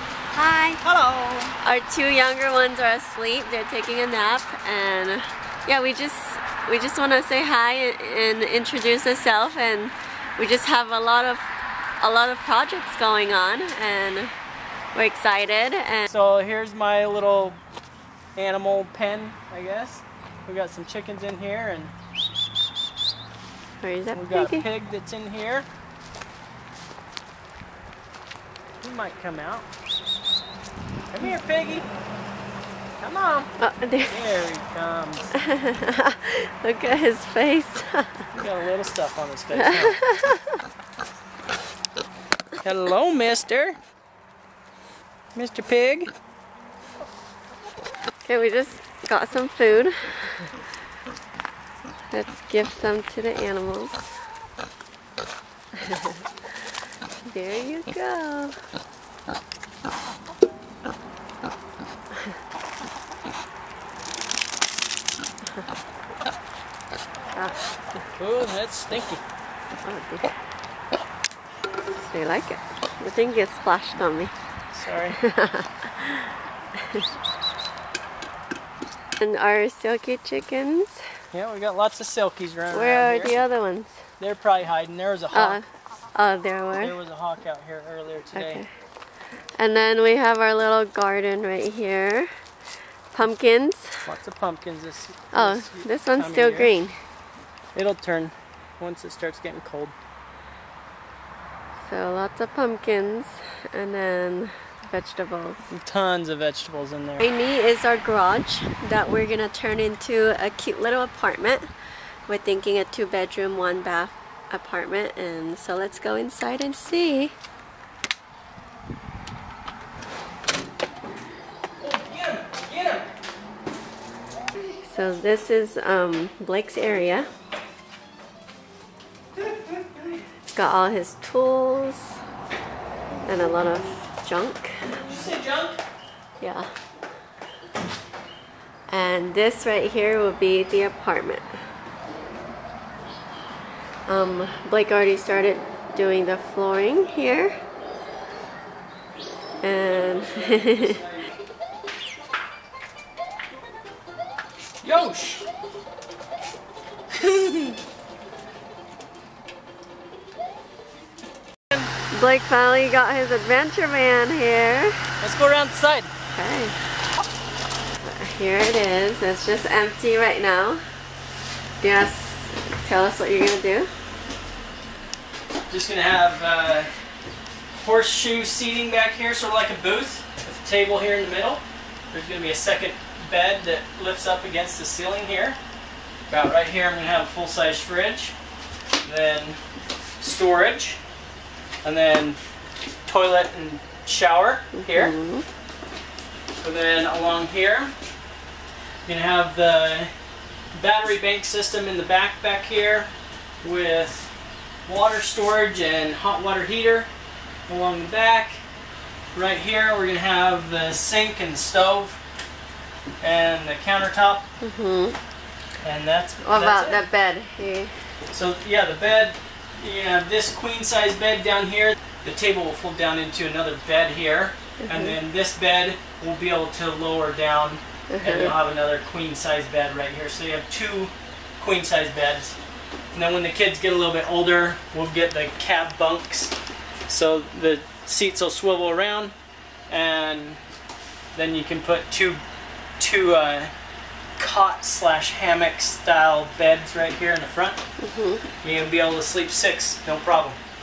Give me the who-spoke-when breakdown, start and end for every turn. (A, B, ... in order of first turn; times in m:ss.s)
0:00.3-0:00.8 A
0:00.8-0:01.6 B
0:01.6-0:11.5 A
0:12.0-0:14.3 A
0:14.9-0:16.1 A
0:16.1-0:17.6 B
0:18.4-0:21.9 B
0:23.8-0:24.7 A
0:24.1-0:25.7 B
0:28.8-0:29.7 B
0:31.1-0:31.9 B
0:33.0-0:33.5 B
0:33.6-0:34.2 A
0:34.1-0:35.3 B
0:35.3-0:38.3 A
0:38.4-0:40.0 B
0:39.6-0:40.6 A
0:42.6-0:43.8 B
0:45.3-0:46.1 B
0:48.2-0:50.5 A
0:52.1-0:54.2 A
0:55.8-0:56.2 A
0:57.2-0:58.6 A
1:07.3-1:07.6 A
1:08.2-1:09.2 B
1:09.8-1:10.3 A
1:11.9-1:14.3 A
1:14.7-1:15.2 B
1:15.2-1:17.0 A
1:19.2-1:21.0 A
1:21.3-1:23.3 B
1:22.7-1:24.0 A
1:24.2-1:25.6 B
1:25.3-1:25.6 A
1:26.1-1:27.0 A
1:26.8-1:28.6 B
1:28.3-1:28.7 A
1:29.6-1:32.3 A
1:33.1-1:34.1 A
1:34.0-1:36.7 B
1:35.3-1:37.0 A
1:37.7-1:39.9 B
1:41.8-1:45.6 A
1:45.7-1:47.2 B
1:47.2-1:51.6 A
1:52.3-1:57.3 A
2:01.8-2:03.1 B
2:04.6-2:07.3 A
2:09.4-2:10.2 B
2:10.5-2:12.2 A
2:13.2-2:15.1 A
2:15.0-2:15.8 B
2:16.4-2:16.7 A
2:18.9-2:21.5 A
2:24.1-2:27.5 A
2:29.6-2:31.0 A
2:30.1-2:31.1 B
2:34.8-2:35.4 B
2:37.1-2:37.8 B
2:42.1-2:45.0 A
2:45.2-2:46.1 B
2:46.3-2:46.8 A
2:48.0-2:50.8 A
2:51.8-2:53.9 A
2:55.7-2:56.9 B
2:57.7-3:05.6 B
3:06.3-3:08.3 B
3:09.0-3:09.6 B
3:10.2-3:11.0 B
3:11.8-3:12.4 B
3:13.0-3:15.1 B
3:14.7-3:15.4 A
3:16.6-3:17.9 B
3:19.0-3:20.1 B
3:20.7-3:23.1 B
3:23.6-3:24.3 B
3:24.8-3:27.1 B
3:27.7-3:28.6 B
3:29.3-3:32.2 B
3:33.2-3:34.4 B
3:34.6-3:35.2 A
3:35.8-3:37.0 B
3:36.4-3:37.9 A
3:38.3-3:52.6 B
3:44.8-3:45.2 A
3:48.1-3:48.5 A
3:53.1-3:56.5 B
3:57.1-3:59.3 B
3:59.9-4:00.6 B
4:01.3-4:02.4 B
4:03.0-4:03.7 B
4:04.4-4:07.8 B
4:08.0-4:08.4 A
4:08.6-4:10.6 B